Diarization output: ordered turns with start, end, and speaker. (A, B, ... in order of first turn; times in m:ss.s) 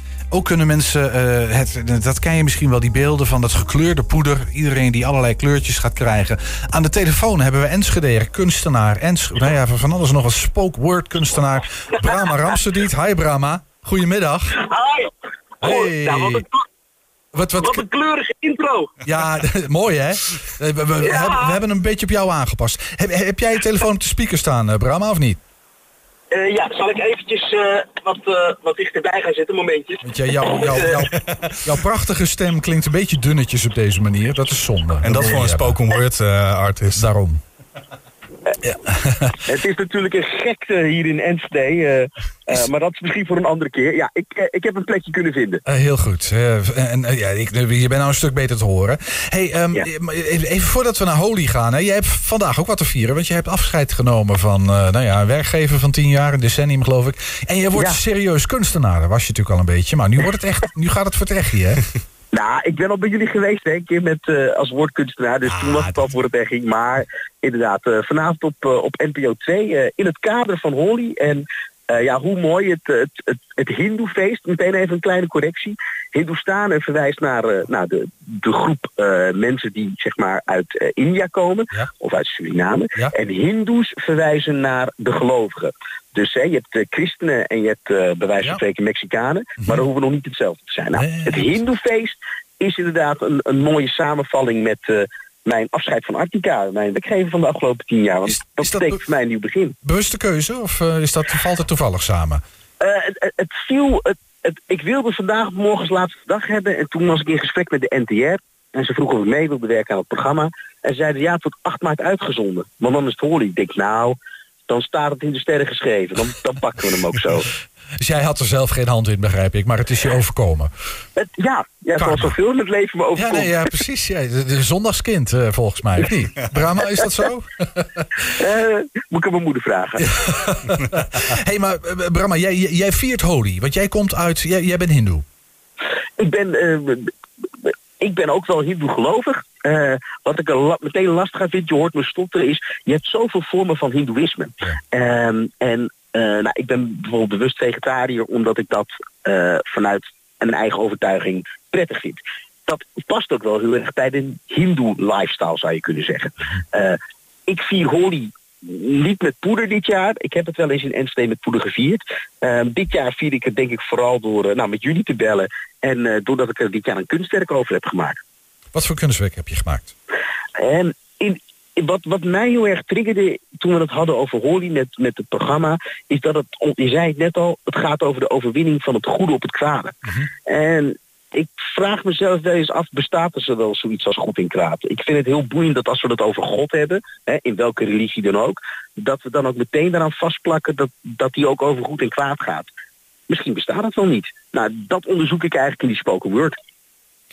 0:00.3-0:14.6 A
0:14.6-0:16.6 B
0:15.6-0:16.4 A
0:17.3-0:17.8 A
0:17.6-0:19.0 B
0:19.0-0:25.4 A
0:21.0-0:21.6 B
0:26.3-0:31.1 B
0:30.0-0:35.8 A
0:35.0-0:37.0 C
0:36.9-0:37.4 A
0:38.6-0:39.4 A
0:39.4-0:45.6 B
0:45.7-1:01.8 A
1:02.3-1:39.8 B
1:05.5-1:06.1 A
1:31.0-1:31.6 A
1:38.3-1:39.0 A
1:39.8-1:42.4 A
1:42.8-1:54.2 B
1:54.7-1:57.5 B
1:58.0-2:00.7 A
2:01.2-2:03.7 B
2:02.0-2:02.4 A
2:03.2-2:08.3 A
2:08.4-2:10.1 B
2:10.1-2:15.2 A
2:16.2-2:48.2 B
2:48.7-2:49.9 A
2:50.6-3:12.7 B
3:13.3-3:16.6 B